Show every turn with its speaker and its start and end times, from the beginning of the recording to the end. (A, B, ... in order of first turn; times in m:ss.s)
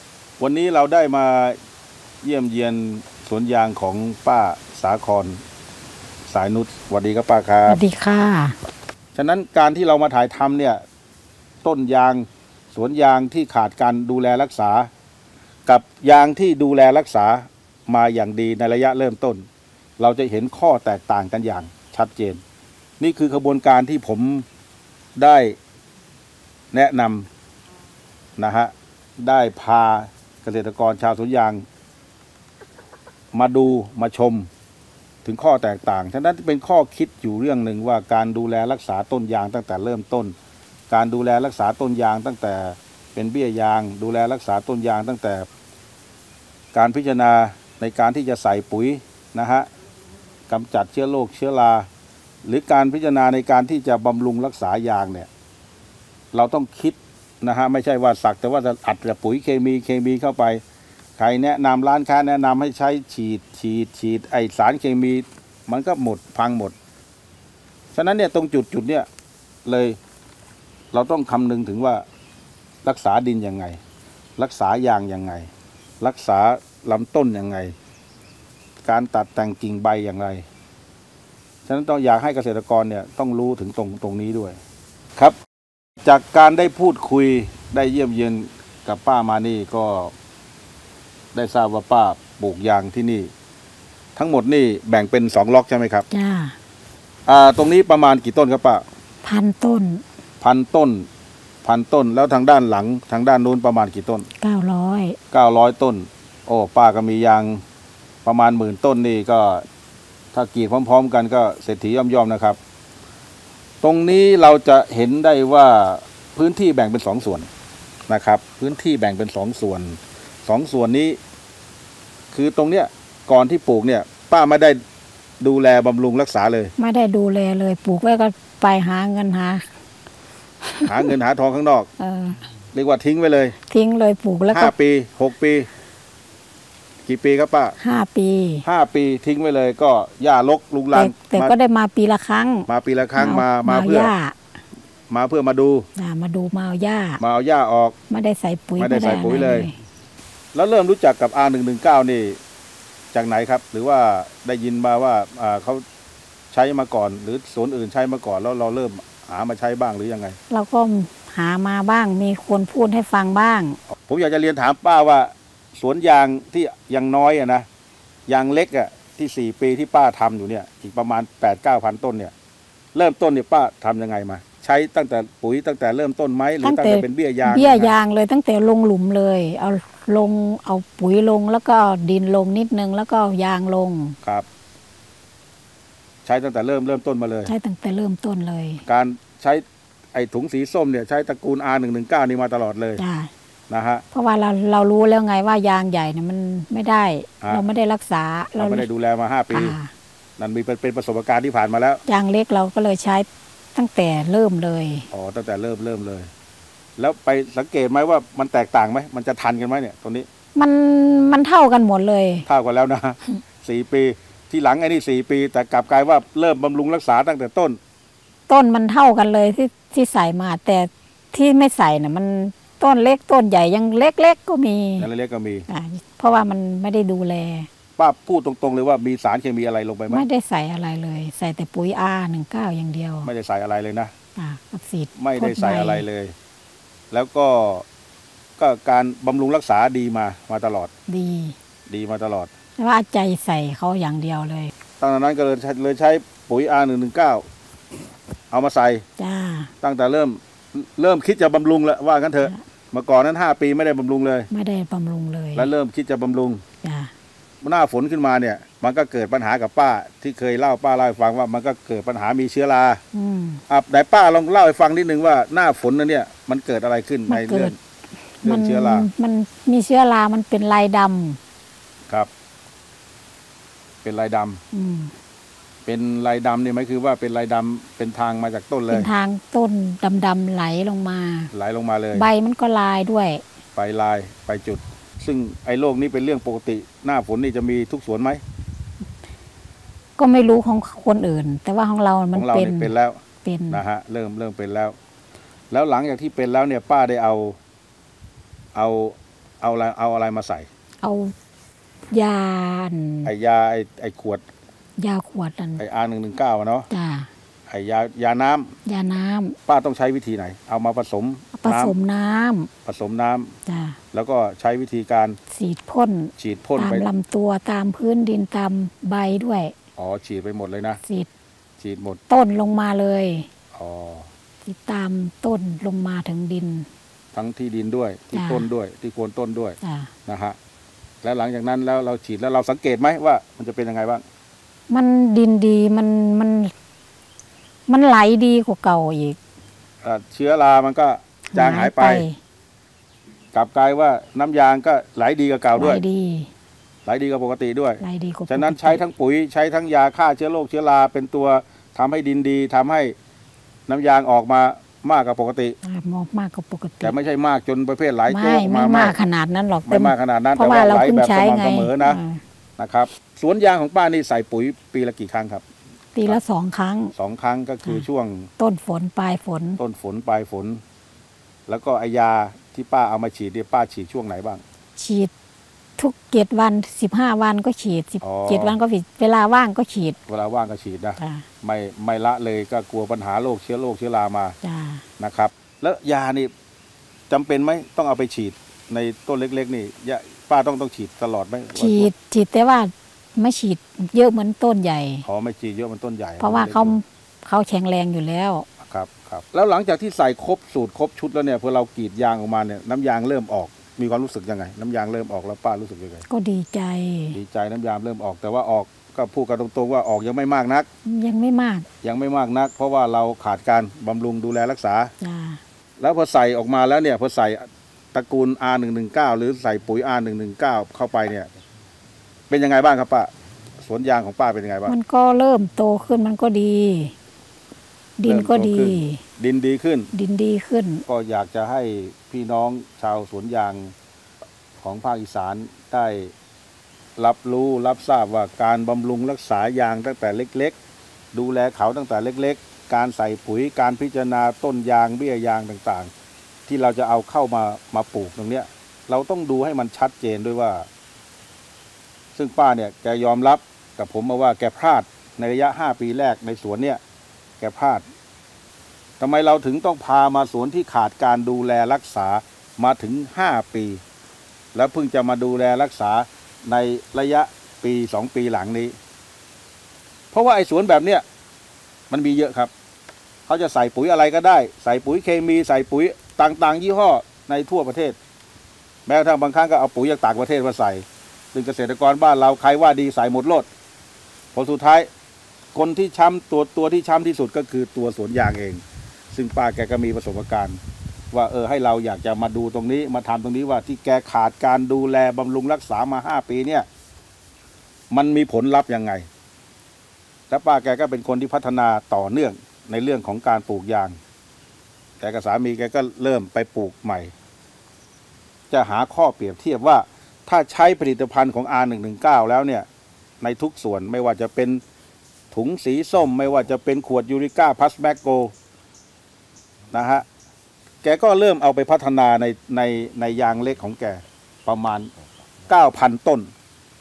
0:00.4-0:01.6 A
0:02.2-0:05.4 A
0:06.3-0:07.8 A
0:07.7-0:08.6 B
0:09.1-0:10.8 A
0:11.6-0:14.9 A
0:15.6-0:19.4 A
0:20.0-0:22.4 A
0:23.0-0:24.4 A
0:25.2-0:25.6 A
0:26.7-0:27.3 A
0:28.4-0:31.6 A
0:33.3-0:34.5 A
0:35.2-0:40.3 A
0:40.9-0:45.5 A
0:46.7-0:49.7 A
0:50.5-0:51.9 A
0:52.4-0:55.3 A
0:56.3-1:00.6 A
1:01.2-1:06.7 A
1:07.9-1:09.1 A
1:09.6-1:10.0 A
1:10.9-1:12.0 A
1:12.8-1:13.8 A
1:14.4-1:15.5 A
1:16.0-1:17.7 A
1:18.8-1:20.4 A
1:21.6-1:24.6 A
1:26.0-1:30.1 A
1:31.3-1:33.3 A
1:34.2-1:36.0 A
1:36.1-1:36.6 B
1:37.2-1:38.8 A
1:39.2-1:40.0 B
1:40.4-1:41.1 A
1:41.6-1:44.3 A
1:44.4-1:45.2 B
1:45.3-1:47.6 A
1:48.2-1:49.6 A
1:50.3-1:52.6 A
1:53.8-1:57.5 A
1:58.1-2:01.2 A
2:02.3-2:04.8 A
2:05.4-2:06.7 A
2:06.8-2:09.7 B
2:10.6-2:11.1 B
2:10.8-2:11.9 A
2:12.0-2:12.4 B
2:12.7-2:13.6 A
2:13.7-2:14.7 B
2:14.5-2:15.7 A
2:17.0-2:17.8 A
2:17.8-2:18.6 B
2:18.6-2:21.5 A
2:20.9-2:24.4 B
2:22.7-2:24.1 A
2:25.1-2:25.9 A
2:26.0-2:27.2 B
2:27.2-2:27.9 A
2:28.1-2:29.7 B
2:28.8-2:29.7 A
2:30.5-2:32.4 A
2:33.1-2:35.8 A
2:36.5-2:40.4 A
2:40.5-2:43.8 B
2:44.0-2:47.6 A
2:48.3-2:52.3 A
2:52.9-2:57.9 A
2:56.6-3:04.2 B
3:06.2-3:07.5 A
3:07.4-3:08.8 B
3:08.8-3:13.0 A
3:13.0-3:13.3 B
3:13.7-3:14.0 A
3:14.1-3:18.9 B
3:18.6-3:19.7 A
3:19.5-3:19.9 B
3:20.4-3:22.0 A
3:22.1-3:25.1 B
3:25.1-3:26.3 A
3:27.0-3:30.3 A
3:30.5-3:32.4 B
3:32.4-3:37.8 A
3:38.5-3:45.1 B
3:45.0-3:45.7 A
3:45.7-3:47.7 B
3:48.0-3:50.2 A
3:50.1-3:53.3 B
3:53.2-3:54.1 A
3:54.4-3:56.0 B
3:55.2-3:56.3 A
3:57.1-3:57.8 A
3:58.6-4:00.9 A
4:01.1-4:01.5 B
4:01.9-4:02.5 A
4:02.8-4:04.7 B
4:05.0-4:07.4 A
4:08.5-4:09.0 A
4:09.2-4:09.7 B
4:09.8-4:14.5 A
4:14.5-4:15.7 B
4:15.6-4:16.6 A
4:16.8-4:17.1 B
4:17.6-4:23.0 A
4:23.1-4:23.6 B
4:23.7-4:27.7 A
4:27.3-4:27.7 B
4:28.4-4:31.4 B
4:28.4-4:29.1 A
4:34.0-4:34.6 A
4:34.7-4:35.1 B
4:35.8-4:39.1 A
4:38.9-4:41.5 B
4:41.5-4:42.2 A
4:42.1-4:43.4 B
4:43.7-4:48.4 A
4:50.2-4:52.9 B
4:52.3-4:53.2 A
4:53.4-4:53.8 B
4:53.7-4:55.0 A
4:55.7-4:57.6 A
4:58.7-5:00.7 A
5:01.0-5:01.3 B
5:02.1-5:03.3 B
5:03.2-5:04.4 A
5:05.0-5:05.8 B
5:05.8-5:06.9 A
5:06.9-5:07.3 B
5:07.7-5:08.7 A
5:08.8-5:09.6 B
5:09.6-5:11.9 A
5:11.5-5:12.7 B
5:12.8-5:13.5 A
5:13.6-5:14.0 B
5:14.1-5:15.4 A
5:15.5-5:19.7 B
5:16.4-5:17.1 A
5:20.0-5:21.0 A
5:21.0-5:21.3 B
5:21.8-5:22.2 A
5:22.3-5:23.5 B
5:23.7-5:24.3 A
5:24.6-5:26.9 B
5:27.3-5:30.6 A
5:28.3-5:28.6 B
5:29.8-5:30.1 B
5:31.2-5:34.2 A
5:34.9-5:36.7 B
5:37.9-5:39.4 B
5:40.0-5:42.2 A
5:41.5-5:42.4 B
5:43.5-5:46.0 A
5:45.7-5:46.5 B
5:47.0-5:53.1 A
5:48.0-5:49.0 B
5:53.9-5:55.8 A
5:55.8-5:57.1 B
5:57.0-5:59.2 A
5:58.3-6:02.4 B
5:59.8-6:02.2 A
6:02.8-6:05.6 A
6:06.1-6:07.1 B
6:07.1-6:08.5 A
6:08.6-6:09.8 B
6:09.8-6:10.8 A
6:11.7-6:14.6 A
6:15.0-6:15.3 B
6:16.0-6:20.2 B
6:18.2-6:18.8 A
6:20.3-6:24.6 A
6:21.2-6:21.4 B
6:24.6-6:25.0 B
6:25.2-6:26.5 A
6:27.3-6:32.1 A
6:31.7-6:35.2 B
6:35.2-6:37.0 A
6:36.4-6:38.6 B
6:38.8-6:46.2 A
6:46.3-6:47.4 B
6:47.3-6:50.9 A
6:51.0-6:51.9 B
6:52.0-6:55.1 A
6:55.2-6:55.6 B
6:56.0-7:01.5 A
7:02.5-7:03.3 A
7:03.8-7:04.9 A
7:04.8-7:07.1 B
7:08.2-7:09.2 B
7:08.3-7:10.1 A
7:10.1-7:11.0 B
7:11.1-7:13.9 A
7:14.8-7:16.3 A
7:17.2-7:20.8 A
7:21.3-7:26.1 A
7:26.7-7:30.9 A
7:32.3-7:37.0 A
7:37.6-7:38.0 A
7:39.2-7:44.0 A
7:44.7-7:48.9 A
7:50.3-7:51.2 A
7:52.1-7:52.7 A
7:53.5-7:58.2 A
7:59.0-8:03.7 A
8:04.5-8:05.1 A
8:05.7-8:10.8 A
8:11.3-8:16.8 A
8:18.1-8:19.3 A
8:20.5-8:24.2 A
8:25.2-8:27.3 A
8:28.7-8:32.9 A
8:33.4-8:34.8 A
8:35.5-8:38.5 A
8:39.9-8:40.2 A
8:41.0-8:45.1 A
8:45.7-8:46.5 A